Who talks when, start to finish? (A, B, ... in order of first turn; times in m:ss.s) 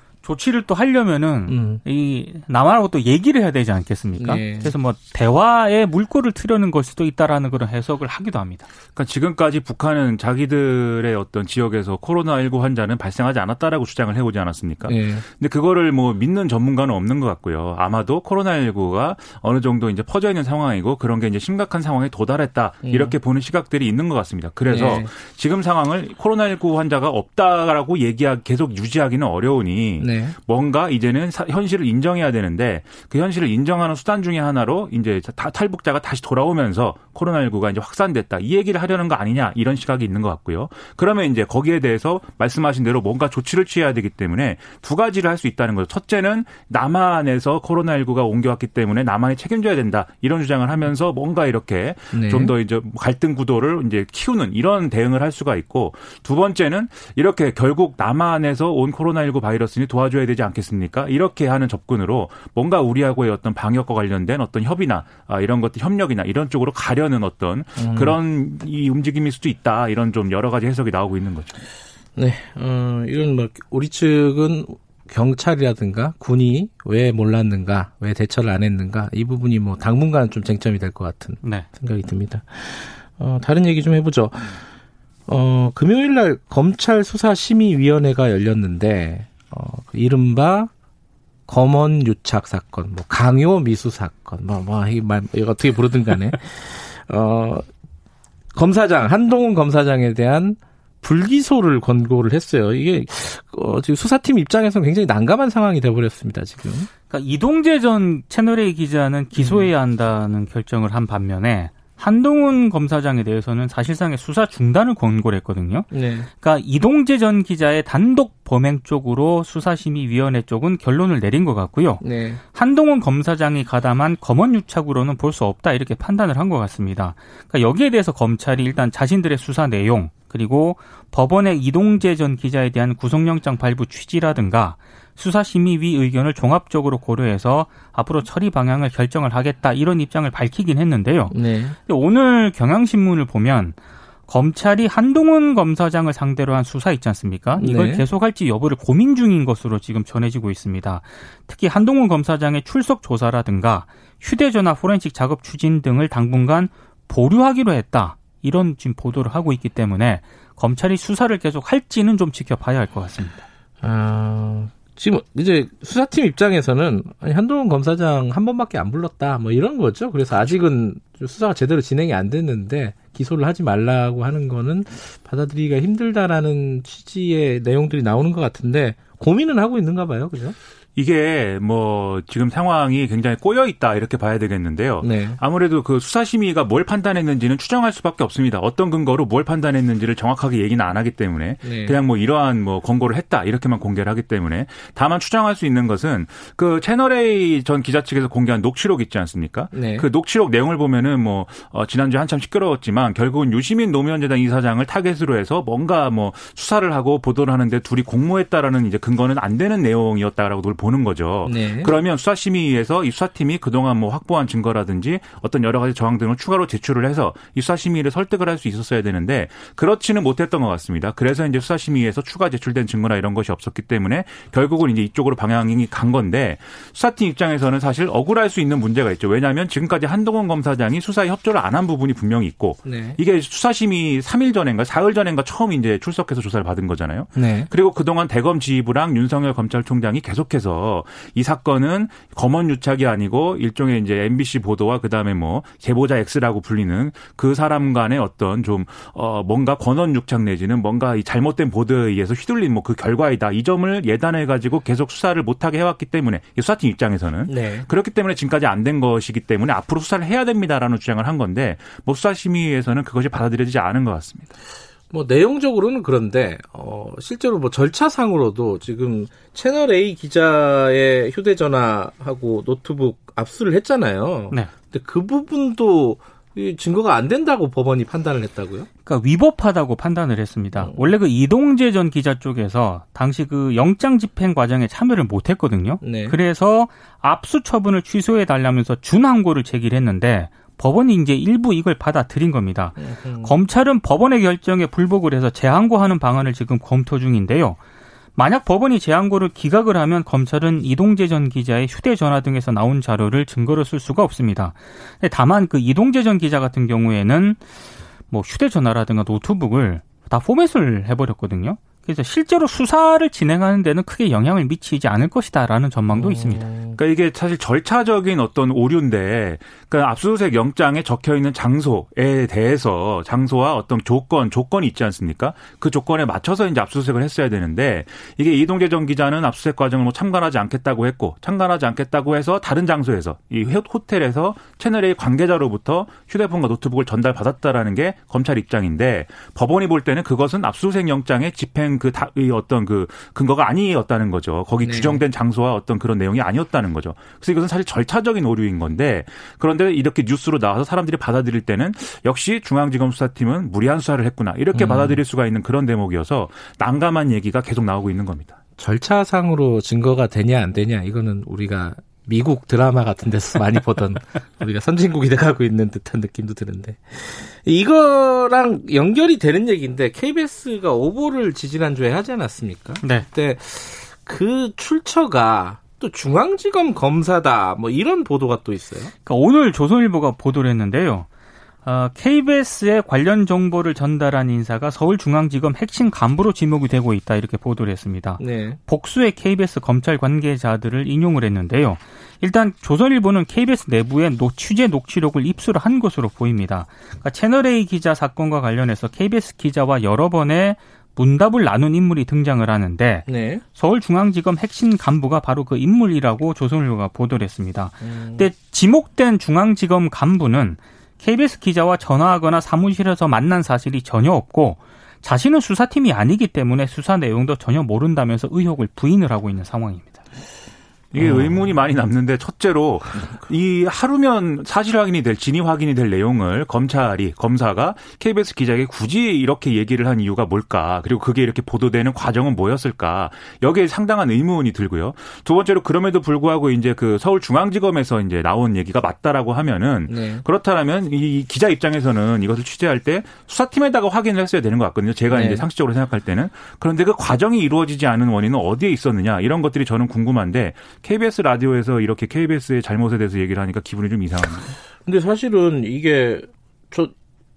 0:00.2-0:08.7 A
0:01.5-0:01.8 B
0:04.2-0:04.7 B
0:08.9-1:11.5 C
0:14.9-0:15.2 B
0:22.8-0:23.2 B
0:24.7-0:25.1 B
0:30.0-0:30.4 B
0:52.1-0:52.5 B
1:07.8-1:08.2 B
1:12.2-1:24.6 B
1:21.4-1:21.7 A
1:25.3-1:30.7 B
1:31.5-1:37.6 B
1:38.5-1:46.9 B
1:47.1-2:43.4 A
1:49.4-1:49.7 B
1:55.9-1:56.3 B
2:02.0-2:02.4 B
2:21.3-2:21.8 B
2:27.6-2:28.0 B
2:43.8-3:00.6 B
3:01.0-4:24.5 C
3:05.0-3:05.4 B
3:11.6-3:12.0 B
3:19.7-3:20.1 B
3:31.4-3:31.9 B
3:52.8-3:53.2 B
3:57.4-3:57.7 B
4:17.5-4:17.9 B
4:25.1-4:38.9 B
4:39.0-4:57.8 A
4:40.8-4:41.1 B
4:46.0-4:46.4 B
4:53.0-4:53.6 B
4:58.3-5:07.6 A
5:08.3-5:16.7 A
5:16.1-5:17.0 B
5:17.0-5:58.6 C
5:44.8-5:45.2 B
5:54.7-5:55.2 B
5:58.8-6:19.1 B
6:13.0-6:13.3 A
6:19.2-6:21.3 A
6:21.8-7:00.2 A
6:28.4-6:28.8 B
6:43.3-6:43.6 B
6:48.0-6:48.5 B
7:01.1-7:34.8 C
7:01.2-7:01.7 B
7:20.1-7:20.4 B
7:25.3-7:25.6 B
7:35.0-7:37.1 B